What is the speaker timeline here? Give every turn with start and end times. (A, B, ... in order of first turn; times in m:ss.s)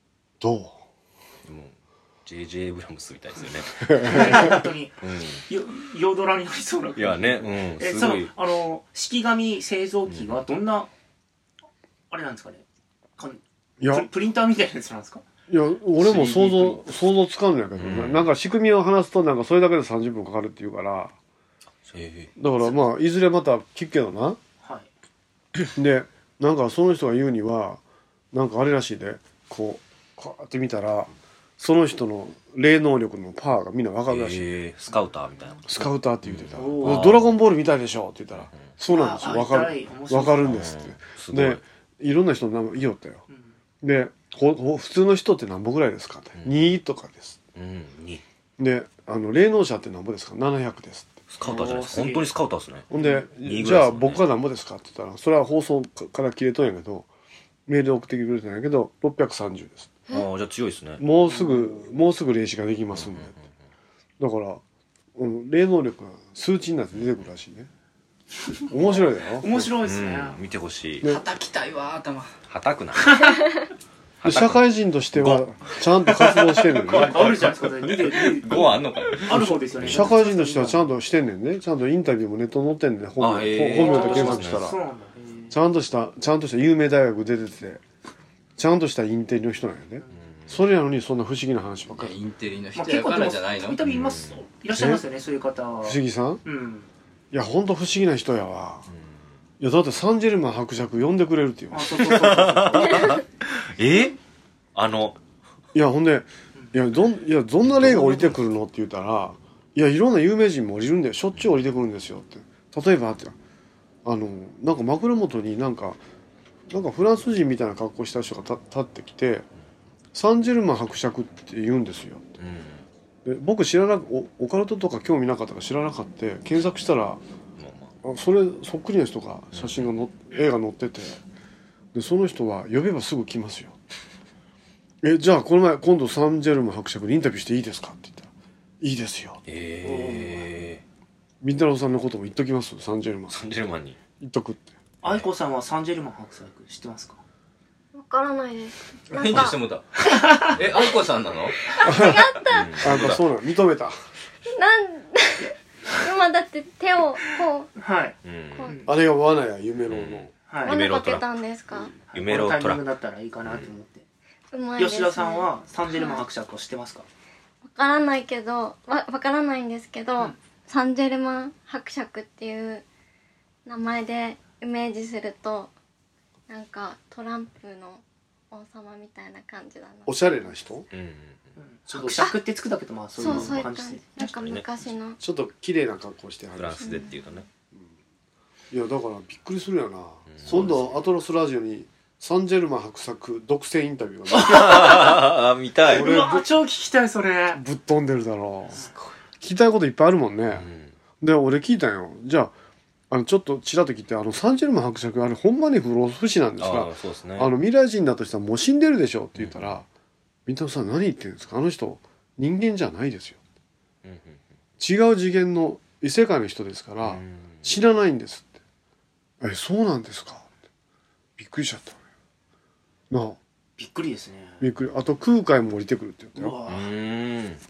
0:00.4-0:00.8 A
0:01.4-0:05.4 B
0:03.8-0:04.5 A
0:04.0-0:10.9 C
0:07.0-0:08.3 B
0:10.1-0:10.4 B
0:12.1-0:12.6 C
0:13.2-0:15.2 C
0:13.8-0:14.1 A
0:15.5-0:21.1 A
0:16.0-0:16.9 D
0:17.8-0:18.3 B
0:21.8-0:22.3 B
0:22.4-0:24.4 A
0:24.6-0:24.9 C
0:25.7-0:27.8 A
0:28.3-0:34.5 A
0:34.1-0:37.3 B
0:35.7-0:43.2 A
0:36.6-0:37.2 C
0:38.9-0:40.6 C
0:40.5-0:41.6 B
0:43.3-0:43.5 C
0:43.8-0:47.4 A
0:46.4-0:46.7 B
0:47.5-0:48.2 B
0:48.6-0:51.2 A
0:51.3-0:52.9 B
0:51.4-0:52.3 C
0:52.9-0:57.1 A
0:52.9-0:53.2 C
0:53.4-0:54.2 B
0:57.7-1:00.0 A
1:00.1-1:01.0 B
1:01.0-1:03.3 A
1:03.0-1:03.5 B
1:04.2-1:04.6 A
1:05.2-1:07.7 A
1:08.7-1:10.4 C
1:08.7-1:09.7 A
1:09.8-1:11.0 B
1:11.0-1:12.3 D
1:12.5-1:13.3 B
1:14.2-1:14.6 B
1:14.2-1:17.5 A
1:15.2-1:15.4 B
1:16.1-1:19.5 D
1:16.9-1:20.9 C
1:19.4-1:24.8 A
1:19.8-1:20.1 B
1:23.2-1:24.7 B
1:23.6-1:25.5 C
1:25.5-1:27.8 A
1:28.6-1:32.1 A
1:30.3-1:30.5 B
1:31.9-1:33.8 D
1:32.8-1:36.9 C
1:33.8-1:34.4 B
1:34.7-1:35.0 A
1:35.8-1:36.4 A
1:37.3-1:38.8 A
1:39.6-1:42.1 A
1:41.7-1:43.2 C
1:42.0-1:44.2 B
1:44.7-1:45.2 B
1:45.7-1:53.3 A
1:54.0-1:56.0 A
1:56.7-1:59.4 A
2:00.1-2:02.3 A
2:02.4-2:02.8 B
2:03.2-2:07.2 A
2:07.6-2:07.9 B
2:08.0-2:11.2 A
2:09.5-2:09.9 B
2:11.9-2:13.8 A
2:15.0-2:18.3 A
2:18.8-2:19.4 A
2:19.4-2:20.8 B
2:19.8-2:20.4 C
2:21.4-2:23.4 A
2:23.3-2:24.0 B
2:24.2-2:24.7 A
2:25.0-2:27.2 C
2:27.9-2:29.6 E
2:29.1-2:29.9 D
2:30.1-2:30.5 C
2:30.5-2:31.6 D
2:31.7-2:32.8 E
2:31.8-2:32.2 A
2:32.4-2:33.2 B
2:32.8-2:33.9 A
2:34.5-2:37.7 E
2:37.8-2:38.9 C
2:38.2-2:38.7 B
2:38.8-2:40.3 A
2:39.9-2:42.8 B
2:40.5-2:40.8 C
2:40.6-2:41.9 E
2:42.1-2:44.0 C
2:43.4-2:43.7 B
2:44.5-2:46.2 E
2:44.8-2:47.1 C
2:47.6-2:52.8 E
2:53.6-2:55.7 E
2:56.5-3:00.6 E
3:00.0-3:00.9 A
3:00.9-3:01.5 B
3:01.6-3:04.3 C
3:01.9-3:02.3 A
3:03.2-3:05.2 E
3:04.2-3:04.7 B
3:05.2-3:06.9 A
3:06.6-3:07.4 B
3:06.8-3:07.4 E
3:08.7-3:14.8 A
3:10.3-3:10.8 B
3:10.4-3:11.0 C
3:14.4-3:15.3 C
3:14.4-3:16.1 B
3:15.8-3:17.6 C
3:15.9-3:16.4 A
3:17.5-3:18.8 A
3:19.4-3:20.7 A
3:20.5-3:20.9 B
3:21.2-3:22.5 A
3:23.1-3:29.8 A
3:26.6-3:27.5 B
3:29.4-3:29.6 B
3:30.4-3:33.4 A
3:34.0-3:34.4 B
3:34.8-3:38.6 A
3:37.0-3:37.7 B
3:39.4-3:40.5 A
3:41.4-3:42.0 A
3:43.1-3:43.4 A
3:43.8-3:44.7 C
3:44.6-3:46.6 A
3:46.4-3:46.9 C
3:46.7-3:47.6 B